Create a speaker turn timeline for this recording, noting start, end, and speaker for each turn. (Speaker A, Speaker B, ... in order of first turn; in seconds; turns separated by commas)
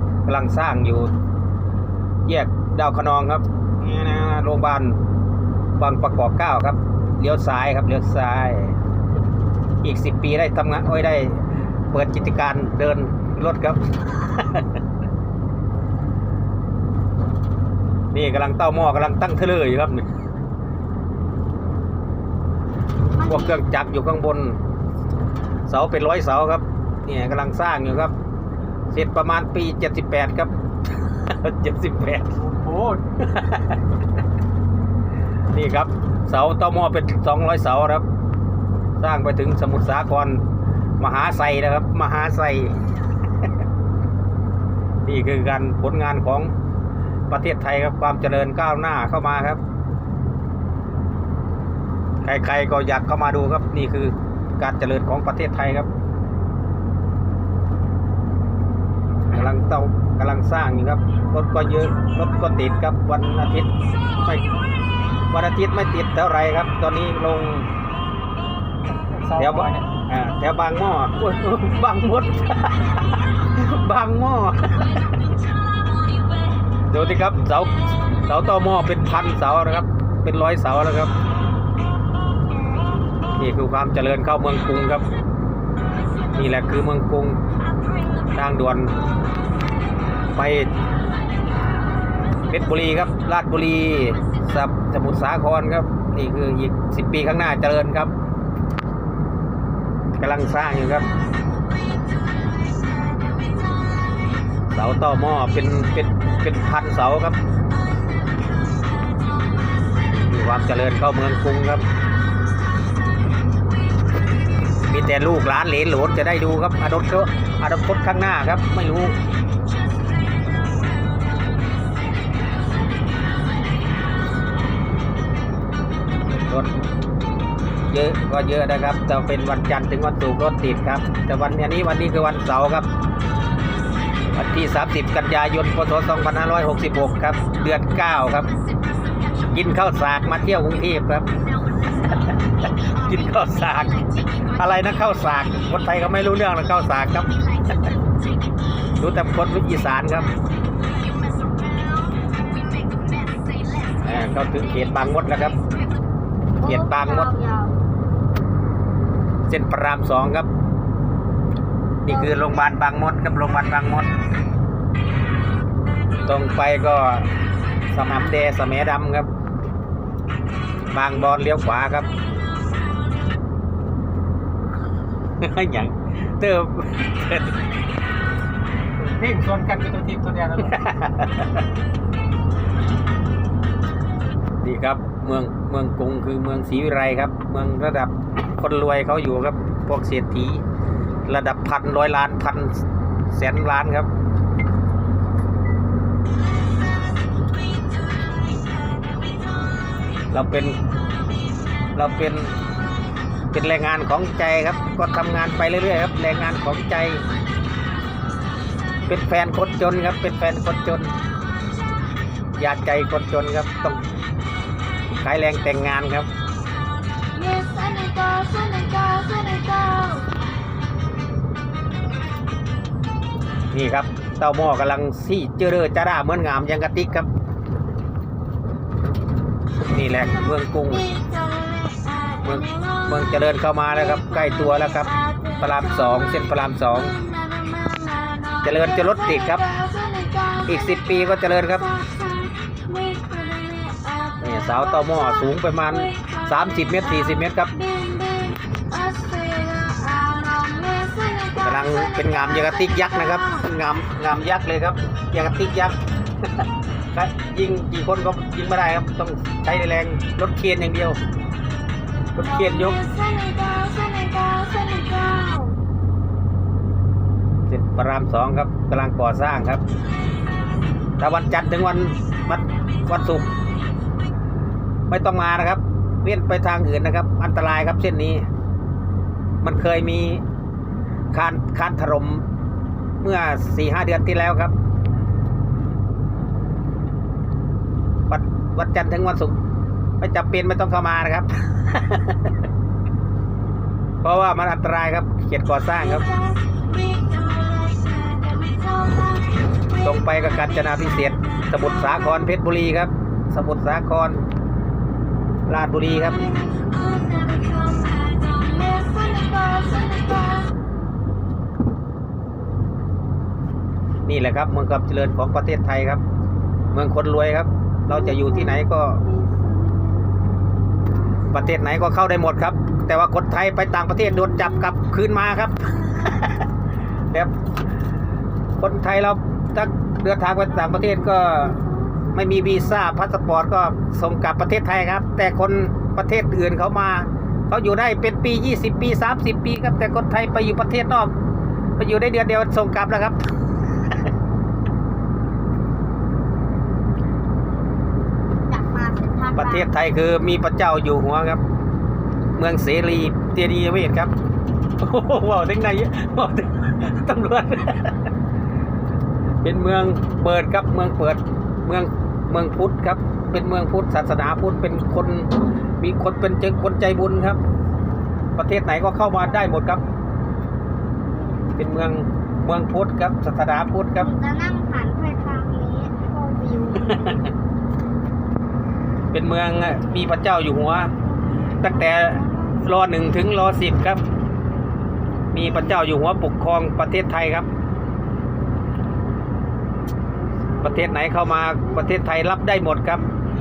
Speaker A: 0.2-1.1, Speaker A: 2.2-5.0, Speaker A: 5.8-8.8, Speaker A: 9.8-14.7, Speaker A: 18.1-20.1, Speaker B: 23.1-23.6, Speaker A: 23.3-24.6, Speaker A: 25.7-28.1, Speaker A: 28.9-32.4, Speaker C: 32.5-33.0, Speaker A: 33.2-33.8, Speaker A: 35.5-38.0, Speaker A: 39.0-40.4, Speaker A: 41.0-42.8, Speaker A: 45.0-46.5, Speaker A: 47.3-49.6, Speaker A: 52.2-55.9, Speaker A: 59.3-64.5, Speaker A: 65.3-67.7, Speaker C: 69.2-69.8, Speaker A: 69.4-75.1, Speaker A: 76.9-81.1, Speaker A: 83.3-85.0, Speaker A: 86.3-87.4, Speaker A: 88.3-89.0, Speaker A: 90.3-90.7, Speaker A: 92.5-98.1, Speaker A: 100.2-101.0, Speaker A: 104.7-107.4, Speaker A: 110.1-111.8, Speaker A: 114.9-119.2, Speaker A: 126.3-126.8, Speaker A: 127.9-132.9, Speaker A: 134.4-138.5, Speaker A: 139.5-141.3, Speaker A: 142.0-147.4, Speaker A: 149.0-150.3, Speaker B: 151.4-152.2, Speaker A: 154.0-155.6, Speaker B: 156.6-157.8, Speaker A: 156.6-157.3, Speaker A: 159.5-160.5, Speaker A: 162.0-164.1, Speaker B: 162.1-162.8, Speaker A: 166.2-167.3, Speaker A: 167.9-169.3, Speaker A: 170.9-172.1, Speaker A: 175.4-177.6, Speaker C: 179.0-180.5, Speaker A: 180.6-181.6, Speaker A: 184.6-190.6, Speaker A: 191.3-194.1, Speaker A: 200.3-200.8, Speaker A: 201.9-202.6, Speaker A: 203.5-207.2, Speaker A: 209.1-211.1, Speaker A: 212.6-214.0, Speaker A: 215.2-216.3, Speaker B: 217.3-220.3, Speaker A: 223.7-227.3, Speaker A: 229.9-231.1, Speaker B: 230.5-253.7, Speaker A: 232.4-237.2, Speaker A: 238.6-239.6, Speaker A: 240.7-241.9, Speaker A: 244.4-247.7, Speaker A: 251.6-256.0, Speaker A: 257.1-261.2, Speaker A: 262.4-263.0, Speaker B: 262.4-265.8, Speaker A: 267.7-269.8, Speaker A: 271.2-273.5, Speaker A: 275.1-278.4, Speaker A: 279.6-280.4, Speaker A: 281.3-282.4, Speaker A: 283.2-284.7, Speaker A: 288.3-289.6, Speaker A: 290.2-292.5, Speaker A: 294.2-296.2, Speaker B: 296.0-302.5, Speaker A: 299.9-304.4, Speaker A: 305.7-306.4, Speaker B: 306.0-310.7, Speaker A: 314.2-316.2, Speaker A: 316.9-319.2, Speaker B: 318.1-320.3, Speaker B: 321.1-321.8, Speaker A: 321.5-326.6, Speaker B: 324.3-324.9, Speaker B: 325.9-326.4, Speaker A: 328.8-331.8, Speaker B: 330.7-332.9, Speaker A: 332.3-341.3, Speaker A: 342.0-343.4, Speaker B: 348.7-349.9, Speaker A: 349.5-351.6, Speaker A: 352.6-354.3, Speaker A: 355.0-358.2, Speaker A: 359.6-367.6, Speaker A: 368.6-370.0, Speaker A: 371.8-374.3, Speaker B: 374.1-377.5, Speaker A: 377.1-377.4, Speaker A: 379.3-381.1, Speaker A: 381.8-384.2, Speaker B: 381.8-382.9, Speaker A: 385.5-387.7, Speaker B: 390.4-392.1, Speaker A: 390.8-393.3